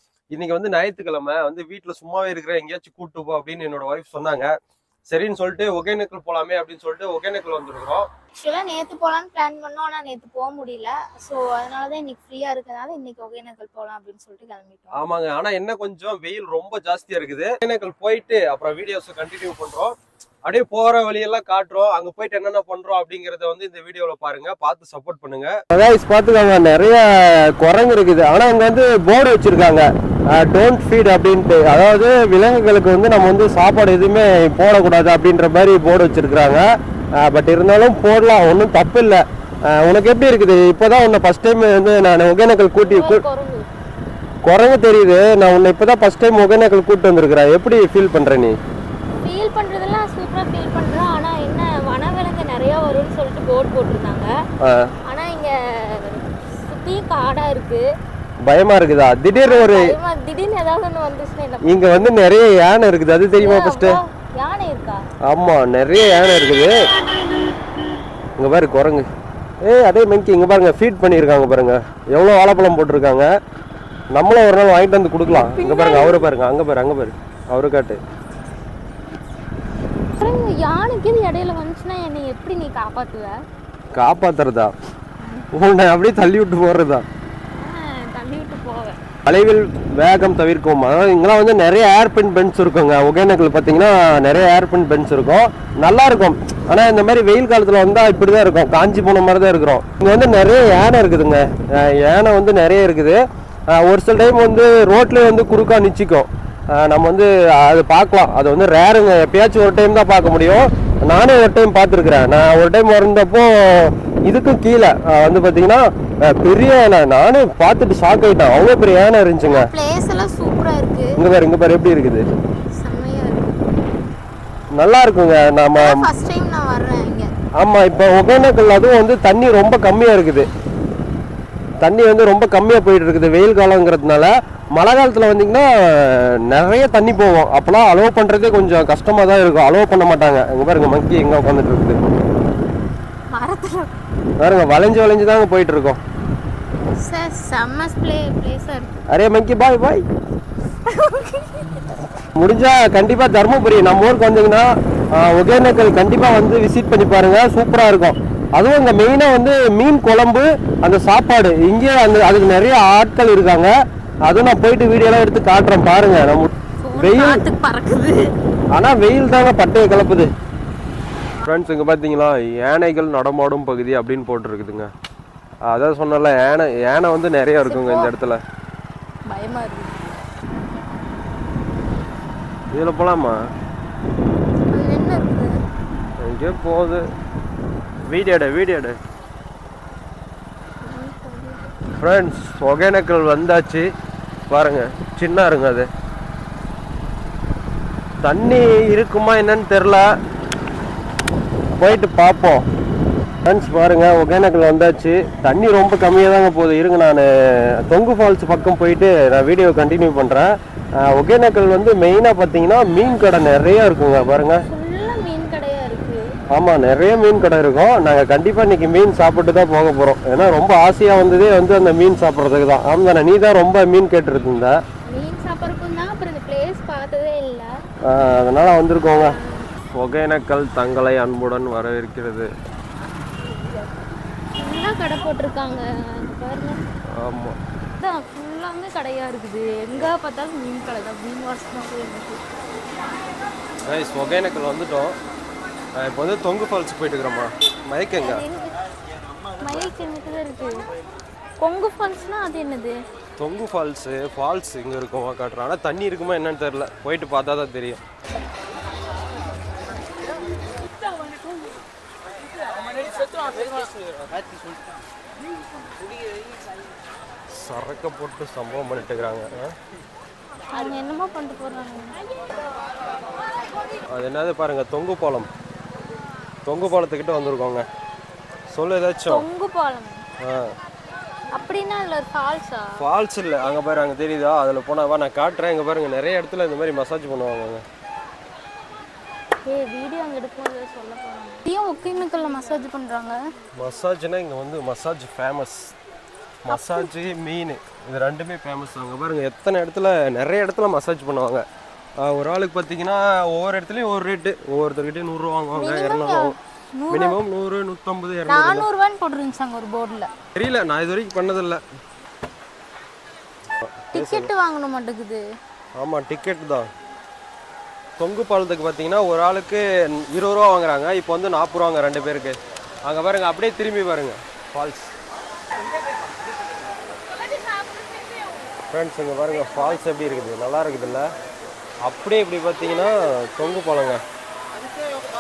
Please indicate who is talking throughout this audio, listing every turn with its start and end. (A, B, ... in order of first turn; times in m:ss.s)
0:00.3-0:04.5 A
0:05.1-0:08.1 A
0:08.4-0:15.0 B
0:14.9-0:36.7 A
0:37.2-0:43.2 A
0:42.8-0:43.7 B
0:44.4-0:48.6 A
0:49.2-0:54.3 B
0:54.6-0:54.9 A
0:55.0-0:57.9 B
0:58.4-1:00.0 A
0:59.3-1:02.1 B
1:01.6-1:04.0 A
1:03.4-1:05.1 B
1:05.3-1:06.8 A
1:08.4-1:09.1 A
1:09.6-1:13.3 A
1:14.1-1:18.0 A
1:15.3-1:16.3 B
1:20.2-1:23.4 B
1:24.0-1:24.7 A
1:25.2-1:25.5 B
1:25.5-1:27.1 A
1:27.5-1:29.0 B
1:29.2-1:43.2 A
1:43.7-1:59.7 A
1:59.5-2:01.2 B
2:01.2-2:02.2 A
2:02.7-2:03.6 B
2:04.8-2:06.1 A
2:05.7-2:07.3 B
2:07.6-2:10.5 A
2:11.8-2:22.0 A
2:23.3-2:23.9 B
2:24.4-2:26.0 A
2:27.0-2:29.1 B
2:29.1-2:30.0 A
2:30.8-2:31.9 B
2:32.4-2:43.7 A
2:44.3-2:47.4 A
2:46.8-2:48.4 B
2:48.7-2:50.3 A
2:51.4-2:54.9 A
2:55.7-2:58.4 A
2:57.6-2:58.1 B
2:59.3-3:00.1 B
3:02.7-3:03.4 A
3:04.7-3:05.5 B
3:06.2-3:07.1 A
3:08.1-3:09.0 A
3:10.8-3:11.7 B
3:12.0-3:13.9 A
3:14.5-3:15.9 A
3:18.2-3:20.1 A
3:21.8-3:22.7 A
3:23.4-3:34.7 A
3:34.6-3:36.3 B
3:36.5-3:44.8 A
3:45.1-3:47.7 B
3:48.1-3:49.4 A
3:49.0-3:49.7 B
3:49.9-3:52.5 A
3:54.6-3:56.8 B
3:57.1-3:57.6 A
3:58.0-4:02.4 B
4:03.9-4:05.2 A
4:06.0-4:08.4 A
4:08.2-4:08.8 B
4:09.6-4:10.8 B
4:11.6-4:13.0 B
4:13.4-4:18.0 A
4:27.5-4:29.7 A
4:30.7-4:32.2 B
4:34.1-4:35.5 A
4:36.7-4:37.8 A
4:38.7-4:39.5 A
4:39.3-4:40.2 B
4:40.4-4:40.7 A
4:41.5-4:43.0 B
4:43.0-4:47.8 A
4:49.7-4:53.4 B
4:53.8-4:55.9 A
4:56.6-5:01.6 A
4:56.7-4:57.1 B
5:02.2-5:06.5 A
5:05.7-5:07.4 B
5:07.1-5:08.9 A
5:08.5-5:10.3 B
5:10.6-5:11.8 A
5:13.8-5:14.5 A
5:14.1-5:15.4 B
5:16.0-5:16.9 A
5:18.2-5:25.1 A
5:28.9-5:31.3 A
5:32.0-5:34.2 A